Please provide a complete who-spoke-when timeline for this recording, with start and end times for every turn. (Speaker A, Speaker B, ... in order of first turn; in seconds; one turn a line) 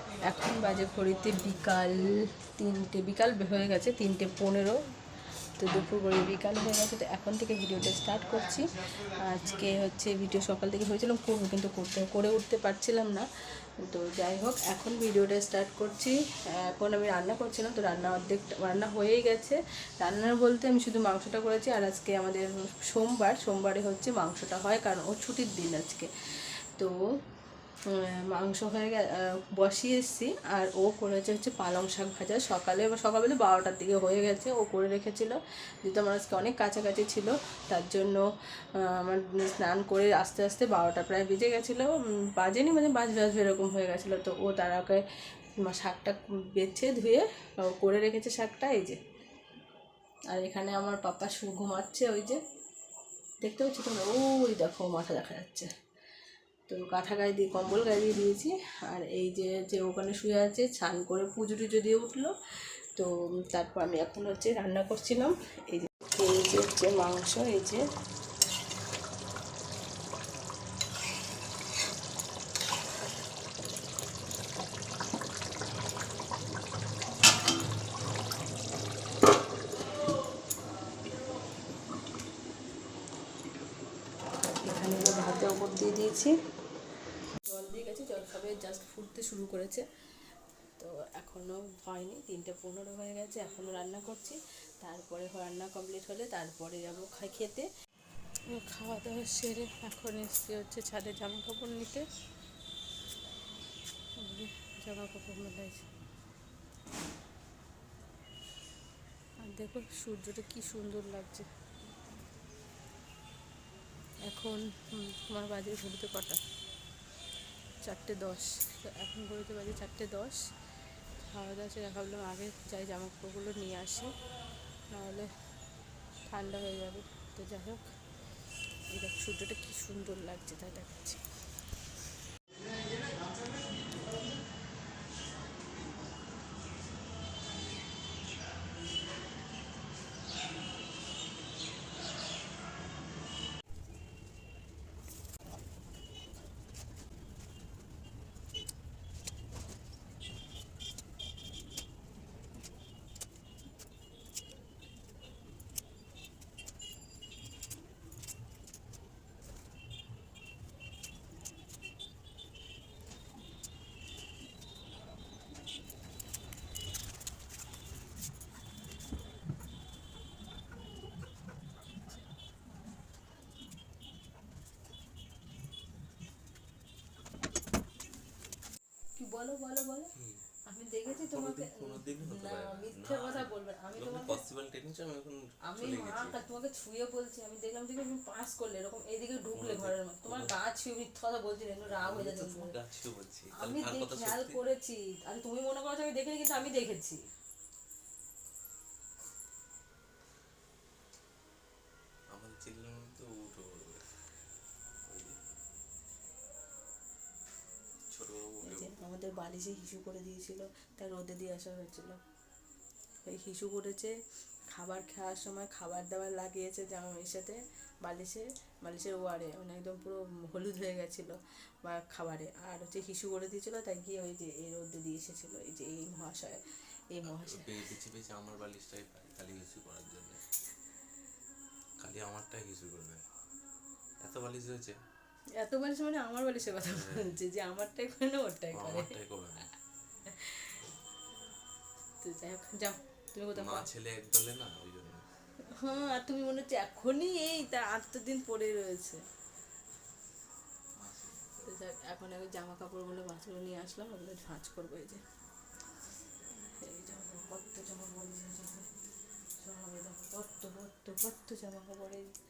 Speaker A: 0.2-4.8
Speaker A: 5.6-13.2
Speaker A: 13.8-26.1
Speaker A: 27.9-38.2
Speaker A: 38.8-45.0
Speaker A: 45.6-49.0
Speaker A: 50.3-52.4
Speaker A: 53.4-55.7
Speaker A: 56.7-62.3
Speaker A: 63.0-67.8
Speaker A: 84.6-86.3
Speaker A: 87.5-89.9
Speaker A: 90.8-97.7
Speaker A: 98.5-102.0
Speaker A: 104.2-105.9
Speaker A: 109.4-111.5
Speaker A: 114.2-116.4
Speaker A: 117.8-120.4
Speaker A: 121.2-124.1
Speaker A: 124.9-125.3
Speaker A: 126.3-127.8
Speaker A: 128.9-131.2
Speaker A: 179.2-180.1
Speaker B: 180.1-180.4
Speaker A: 180.7-184.4
Speaker B: 181.2-186.4
Speaker A: 185.7-192.7
Speaker B: 189.5-190.5
Speaker B: 191.8-194.6
Speaker A: 193.6-197.2
Speaker B: 202.3-204.1
Speaker B: 205.1-205.4
Speaker B: 208.1-209.0
Speaker A: 208.6-212.2
Speaker A: 213.2-214.1
Speaker A: 214.7-226.6
Speaker A: 227.1-227.7
Speaker B: 227.2-230.4
Speaker B: 232.0-233.2
Speaker B: 234.2-234.9
Speaker A: 235.6-239.2
Speaker B: 236.8-237.3
Speaker B: 238.7-239.7
Speaker A: 240.3-240.8
Speaker A: 242.2-243.9
Speaker B: 243.5-245.3
Speaker A: 245.7-249.2
Speaker B: 245.8-246.1
Speaker B: 251.0-251.7
Speaker A: 251.6-255.2
Speaker A: 256.6-258.9
Speaker A: 259.6-262.3